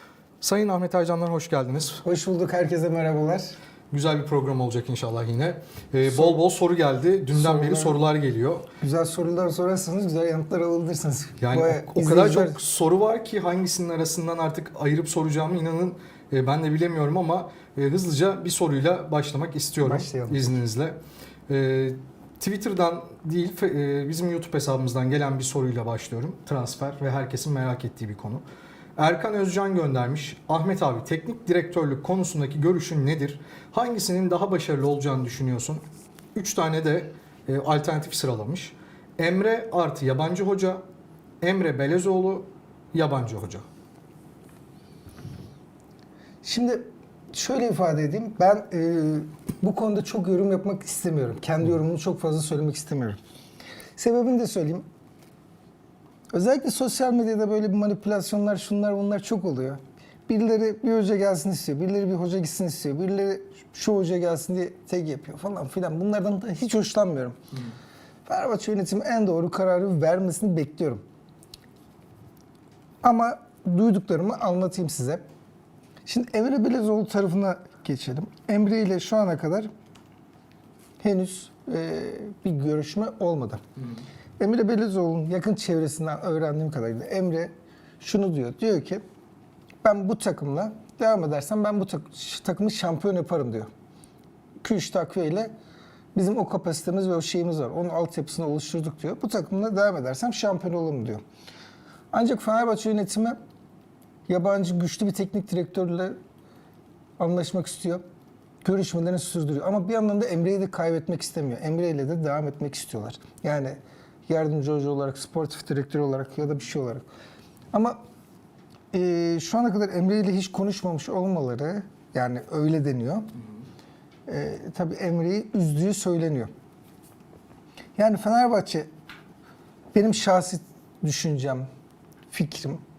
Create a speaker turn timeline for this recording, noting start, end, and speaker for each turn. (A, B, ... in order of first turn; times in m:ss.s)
0:00.4-0:02.0 A
0:02.0-0:03.6 B
0:03.9-0:08.7 A
0:06.1-0:06.4 B
0:07.3-0:08.0 B
0:08.8-0:12.6 B
0:11.4-0:28.4 A
0:19.8-0:20.5 B
0:29.0-0:35.8 A
0:36.4-0:40.8 A
0:41.4-0:43.6 A
0:46.4-0:53.2 B
0:54.0-0:54.8 B
0:56.3-1:07.4 B
1:08.3-1:11.0 B
1:13.0-1:15.2 B
1:16.1-1:19.7 B
1:21.0-1:23.6 B
1:24.4-1:29.0 B
1:29.8-1:33.7 B
1:34.6-1:35.5 B
1:36.2-1:41.2 B
1:42.1-1:43.4 B
1:44.3-1:46.2 B
1:47.2-1:48.0 B
1:48.6-1:57.0 B
1:57.7-1:58.0 B
1:58.9-2:03.3 B
2:04.3-2:06.5 B
2:08.0-2:08.9 B
2:10.0-2:11.7 B
2:12.3-2:12.8 B